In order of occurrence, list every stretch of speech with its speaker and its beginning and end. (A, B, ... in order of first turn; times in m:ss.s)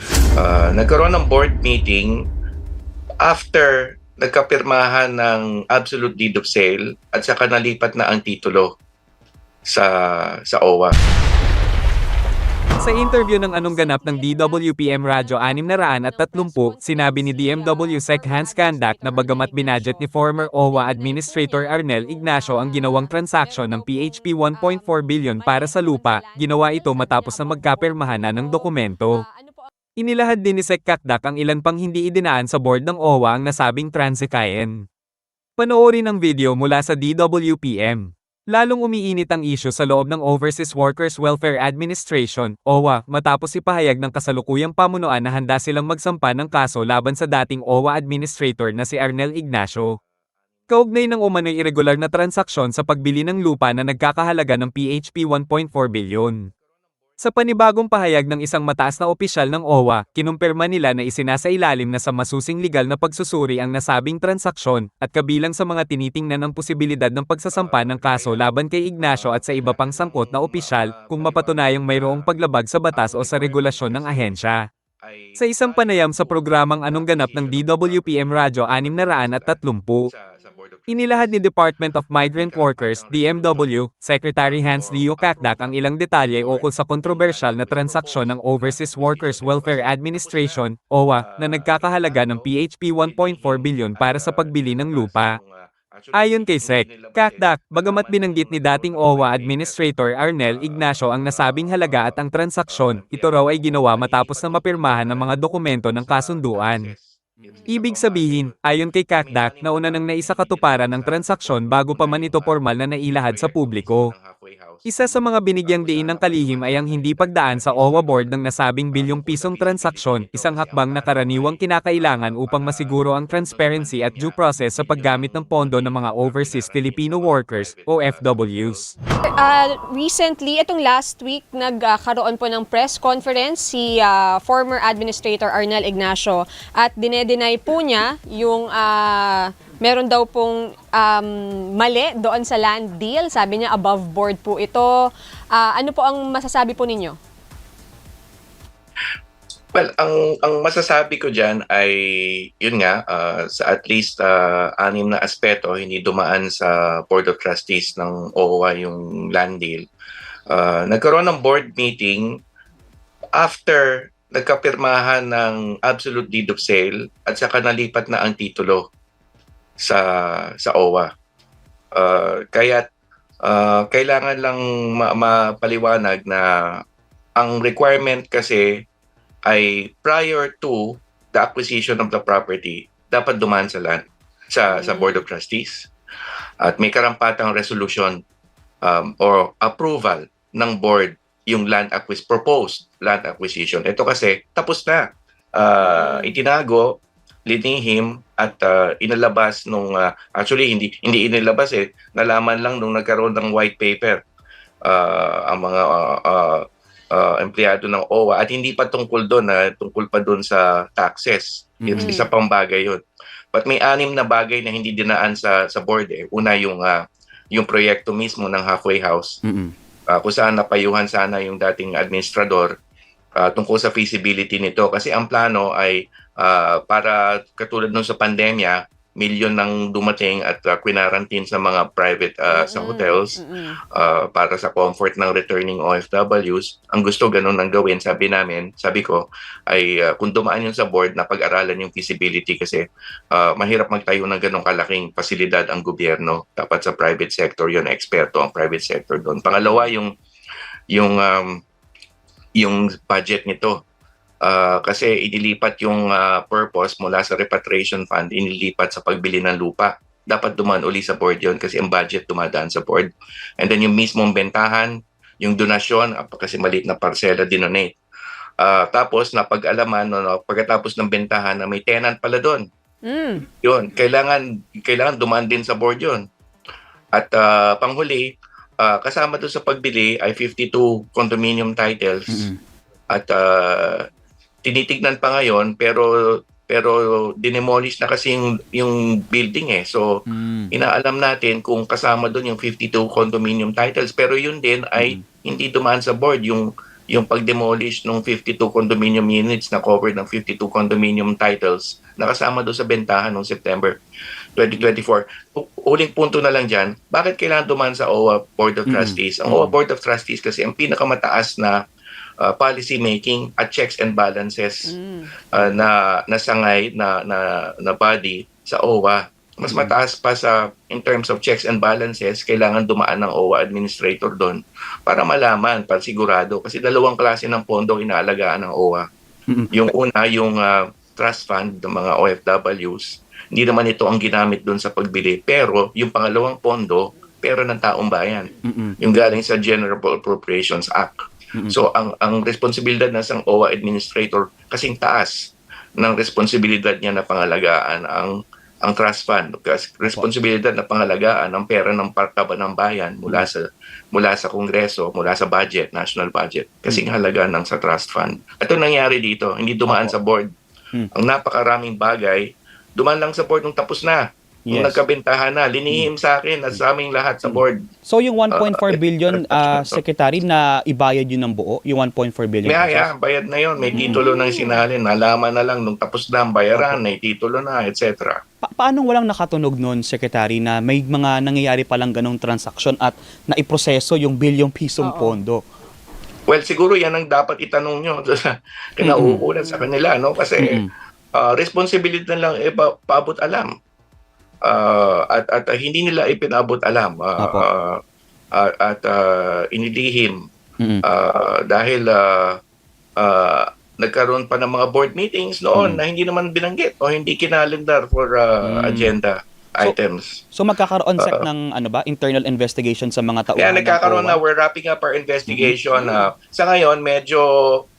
0:00.4-0:02.2 A
0:03.2-0:08.7 A
0:09.7-0:11.0 A
0:12.8-0:29.2 B
0:13.5-0:29.7 C
0:30.0-0:34.8 B
0:35.6-0:49.9 B
0:50.7-0:56.5 B
0:57.2-1:14.6 B
1:07.5-1:12.3 A
1:12.9-1:14.5 A
1:15.0-1:21.4 A
1:15.4-1:20.1 B
1:20.9-1:35.4 B
1:22.3-1:23.7 A
1:24.4-1:30.6 A
1:31.2-1:39.8 A
1:36.1-1:46.9 B
1:40.4-1:48.6 A
1:47.6-1:47.8 C
1:47.7-1:54.1 B
1:49.1-1:52.6 A
1:53.2-2:08.9 A
1:54.9-2:08.9 B
2:09.4-2:24.9 C
2:25.5-2:27.2 C
2:29.8-2:39.8 A
2:40.5-2:42.3 A
2:43.4-2:48.8 A
2:49.8-2:51.1 A
2:52.0-2:52.8 A
2:53.4-2:56.5 A
2:57.4-2:58.7 A
2:59.5-3:05.9 A
3:04.7-3:05.2 C
3:06.6-3:08.2 A
3:08.8-3:15.0 A
3:15.6-3:16.9 A
3:15.8-3:16.4 C
3:17.5-3:24.2 A
3:24.8-3:33.0 A
3:31.8-3:32.2 D
3:32.0-3:32.3 C
3:33.5-3:37.0 A
3:37.5-3:39.4 A
3:39.4-3:39.7 D
3:40.1-3:42.7 A
3:43.4-3:53.4 A
3:52.5-3:53.8 C
3:53.9-4:10.1 A
4:09.6-4:09.9 C
4:10.9-4:11.6 A
4:12.6-4:13.8 A
4:14.4-4:28.0 A
4:28.6-4:32.6 A
4:33.0-4:33.4 C
4:33.6-4:36.2 A
4:37.2-4:38.3 A
4:38.8-4:42.5 A
4:42.3-4:42.6 D
4:43.1-4:44.0 A
4:44.6-4:50.1 A
4:50.3-4:50.7 D
4:50.7-5:04.0 A
4:55.0-4:55.2 D
5:04.6-5:11.8 A
5:08.9-5:09.8 D
5:12.4-5:14.9 A
5:14.9-5:15.3 C
5:15.5-5:29.0 A
5:19.7-5:19.9 D
5:29.5-5:29.8 D
5:29.7-5:41.2 A
5:38.6-5:39.0 D
5:41.7-5:45.4 A
5:46.0-6:00.5 A
5:59.9-6:00.2 D
6:01.2-6:02.4 A
6:03.0-6:07.8 A
6:04.7-6:05.0 D
6:07.4-6:13.1 D
6:08.5-6:10.0 A
6:12.7-6:18.4 A
6:13.8-6:14.8 C
6:14.0-6:14.2 D
6:16.7-6:17.0 D
6:18.6-6:25.6 D
6:25.0-6:25.4 C
6:26.5-6:30.8 A
6:29.0-6:29.4 D
6:29.2-6:29.9 C
6:30.6-6:30.9 D
6:31.4-6:33.7 A
6:34.6-6:38.0 A
6:37.4-6:37.7 D
6:38.6-6:40.4 A
6:41.0-6:42.6 A
6:43.2-6:50.4 A
6:45.8-6:46.0 D
6:48.6-6:49.2 D
6:50.5-6:54.4 D
6:51.2-6:51.5 A
6:53.6-6:57.5 A
6:55.5-6:56.3 D